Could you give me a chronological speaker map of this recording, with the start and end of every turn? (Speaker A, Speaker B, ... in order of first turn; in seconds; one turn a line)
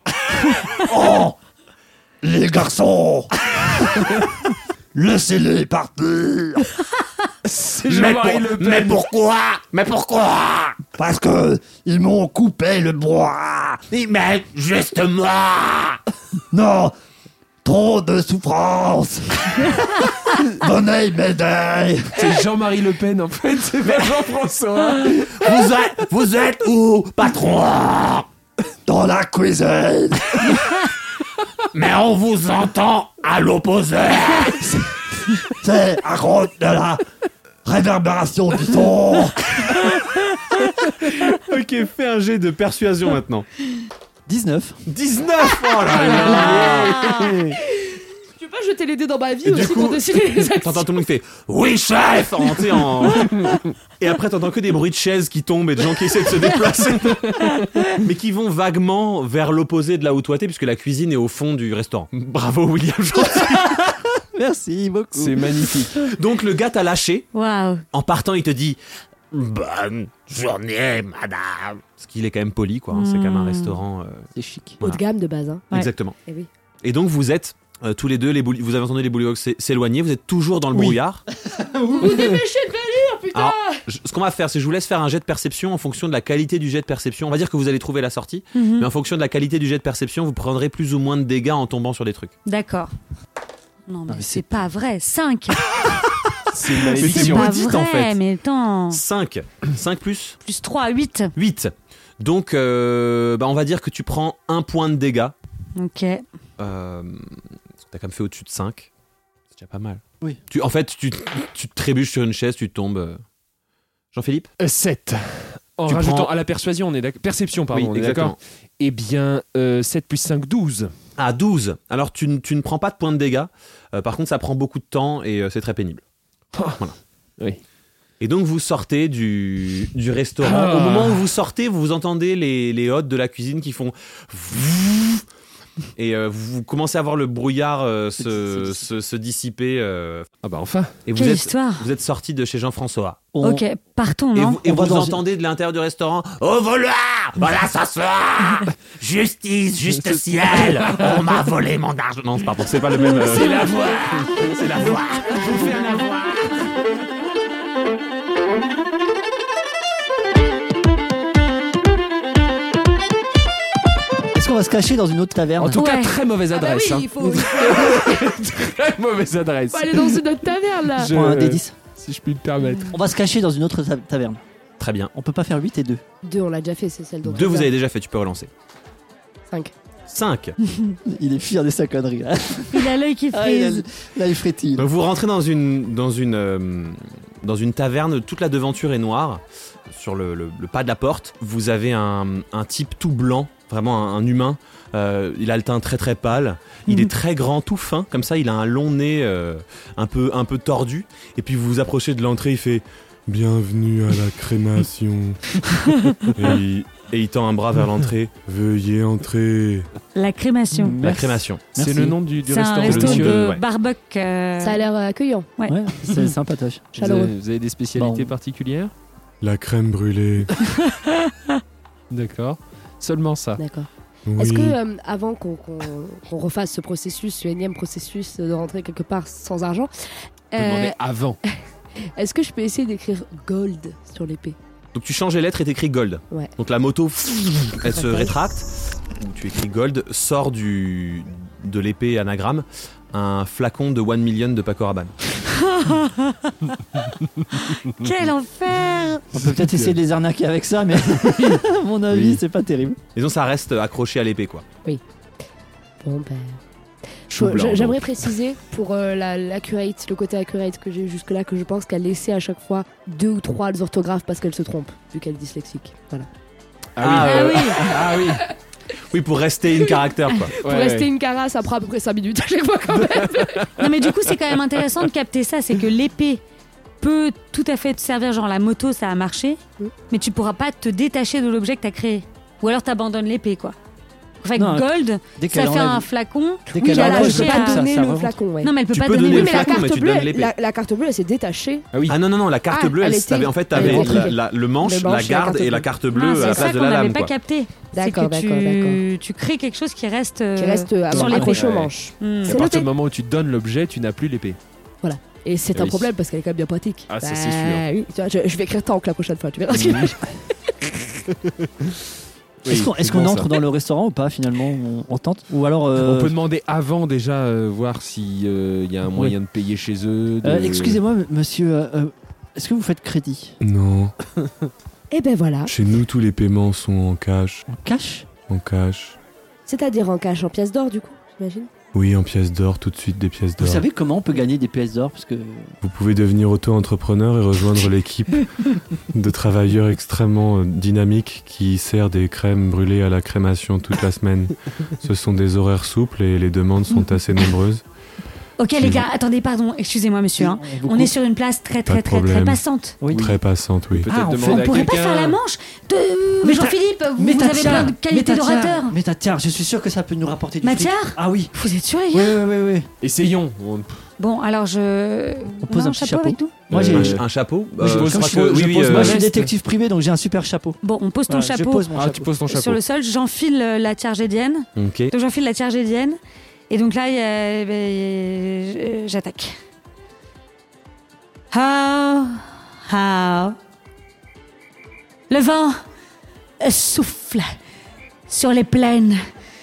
Speaker A: 0.5-1.4
Speaker A: 2.2-4.3
Speaker A: 4.9-6.7
Speaker B: 7.4-9.1
Speaker C: 7.9-10.8
Speaker A: 10.9-13.9
Speaker C: 13.9-16.0
Speaker A: 16.5-16.9
Speaker A: 17.6-22.4
Speaker B: 22.1-25.6
Speaker C: 25.3-28.3
Speaker A: 28.9-30.6
Speaker C: 31.7-34.6
Speaker A: 35.5-37.0
Speaker A: 37.6-39.9
Speaker C: 41.0-43.5
Speaker A: 44.3-44.8
Speaker C: 44.9-47.1
Speaker D: 46.0-47.5
Speaker E: 46.0-50.9
Speaker C: 49.5-63.9
Speaker A: 63.5-65.8
Speaker B: 65.1-66.1
Speaker C: 66.0-67.3
Speaker D: 67.3-67.8
Speaker C: 67.9-68.8
Speaker C: 69.3-74.3
Speaker D: 72.9-73.8
Speaker A: 74.4-74.8
Speaker E: 74.8-75.7
Speaker C: 75.7-76.2
Speaker C: 76.8-81.2
Speaker A: 81.5-82.3
Speaker E: 81.9-83.8
Speaker B: 82.0-82.4
Speaker C: 83.3-92.3
Speaker D: 88.5-88.9
Speaker D: 92.5-92.9
Speaker D: 93.9-95.8
Speaker A: 94.1-94.4
Speaker B: 96.5-97.6
Speaker D: 96.8-99.0
Speaker C: 96.9-98.2
Speaker C: 98.9-100.4
Speaker D: 100.4-101.3
Speaker C: 101.3-105.3
Speaker D: 105.8-106.2
Speaker C: 106.6-107.4
Speaker C: 107.9-108.9
Speaker C: 109.5-113.2
Speaker C: 114.1-114.5
Speaker B: 114.6-120.9
Speaker C: 115.9-116.3
Speaker C: 117.7-118.4
Speaker C: 121.2-126.0
Speaker B: 126.5-126.8
Speaker C: 128.2-135.2
Speaker B: 130.4-131.3
Speaker C: 136.0-140.3
Speaker B: 140.4-141.0
Speaker C: 141.1-143.2
Speaker D: 141.2-141.8
Speaker A: 143.3-143.6
Speaker D: 143.4-144.6
Speaker C: 144.3-156.7
Speaker A: 144.6-145.2
Speaker B: 153.1-154.0
Speaker A: 164.3-165.8
Speaker B: 165.6-170.2
Speaker D: 165.8-166.2
Speaker E: 166.5-168.4
Speaker E: 169.7-171.2
Speaker B: 171.0-173.0
Speaker A: 171.1-171.8
Speaker D: 172.6-172.9
Speaker A: 172.9-174.4
Speaker C: 174.8-175.1
Speaker A: 175.1-176.0
Speaker E: 176.2-177.7
Speaker C: 177.2-178.5
Speaker C: 180.1-180.6
Speaker A: 181.1-184.9
Speaker D: 182.7-183.9
Speaker C: 184.8-202.8
Speaker F: 203.3-205.5
Speaker F: 206.4-206.8
Speaker C: 206.4-208.4
Speaker F: 208.4-209.9
Speaker D: 210.2-211.0
Speaker A: 210.7-212.2
Speaker C: 211.0-211.6
Speaker B: 211.7-213.4
Speaker D: 212.4-214.8
Speaker C: 212.9-213.6
Speaker E: 214.6-215.5
Speaker A: 215.7-217.2
Speaker E: 217.0-217.3
Speaker B: 217.0-218.9
Speaker A: 218.0-218.3
Speaker F: 219.4-220.5
Speaker B: 222.1-223.6
Speaker E: 223.6-229.9
Speaker F: 224.3-224.8
Speaker E: 230.5-230.9
Speaker B: 230.6-231.4
Speaker C: 230.6-230.9
Speaker E: 232.2-234.6
Speaker C: 234.9-245.1
Speaker E: 237.9-238.3
Speaker D: 245.5-247.0
Speaker D: 247.5-249.3
Speaker A: 249.3-253.0
Speaker B: 249.4-249.9
Speaker B: 251.2-251.6
Speaker B: 252.1-252.4
Speaker C: 253.2-254.7
Speaker E: 256.0-256.6
Speaker B: 257.3-258.3
Speaker E: 257.3-266.3
Speaker B: 267.0-268.4
Speaker C: 267.0-267.8
Speaker D: 267.2-267.8
Speaker E: 267.8-268.4
Speaker C: 269.1-270.6
Speaker E: 269.8-273.8
Speaker B: 270.6-271.1
Speaker B: 273.0-273.8
Speaker D: 273.8-276.4
Speaker D: 277.0-279.6
Speaker D: 280.1-283.8
Speaker D: 284.4-288.0
Speaker A: 284.6-286.1
Speaker E: 286.7-288.7
Speaker A: 286.7-288.4
Speaker D: 288.6-289.8
Speaker C: 288.9-290.5
Speaker E: 289.3-291.9
Speaker C: 292.1-297.3
Speaker E: 292.7-296.7
Speaker B: 293.8-294.1
Speaker D: 296.1-302.6
Speaker E: 297.9-299.0
Speaker E: 300.6-302.9
Speaker A: 301.2-301.5
Speaker B: 301.3-301.9
Speaker B: 302.4-304.6
Speaker E: 305.0-311.1
Speaker B: 305.7-306.1
Speaker B: 307.1-307.8
Speaker A: 309.7-310.3
Speaker B: 312.6-313.5
Speaker A: 312.6-316.4
Speaker B: 316.0-321.0
Speaker A: 319.1-319.4
Speaker A: 320.4-323.6
Speaker F: 323.6-324.1
Speaker E: 325.1-325.7
Speaker F: 325.7-327.6
Speaker A: 327.7-328.3
Speaker F: 328.5-329.2
Speaker E: 329.7-331.7
Speaker F: 331.9-333.9
Speaker A: 333.6-335.7
Speaker F: 335.8-338.5
Speaker F: 339.1-347.8
Speaker D: 348.6-353.0
Speaker F: 348.8-349.1
Speaker A: 350.4-351.1
Speaker F: 351.9-354.1
Speaker A: 353.0-353.4
Speaker B: 353.1-353.4
Speaker B: 354.0-355.4
Speaker A: 354.1-355.0
Speaker D: 354.4-359.0
Speaker A: 356.4-361.6
Speaker D: 360.6-362.4
Speaker A: 362.1-362.9
Speaker B: 363.0-364.1
Speaker D: 364.2-366.6
Speaker A: 365.6-367.2
Speaker B: 366.7-367.2
Speaker C: 366.7-369.3
Speaker B: 367.8-369.5
Speaker A: 367.8-372.3
Speaker D: 370.8-371.9
Speaker B: 371.9-372.8
Speaker D: 372.5-376.2
Speaker C: 374.8-375.1
Speaker D: 376.7-379.6
Speaker D: 381.5-383.6
Speaker D: 385.3-385.8
Speaker D: 386.6-387.5
Speaker D: 388.3-389.2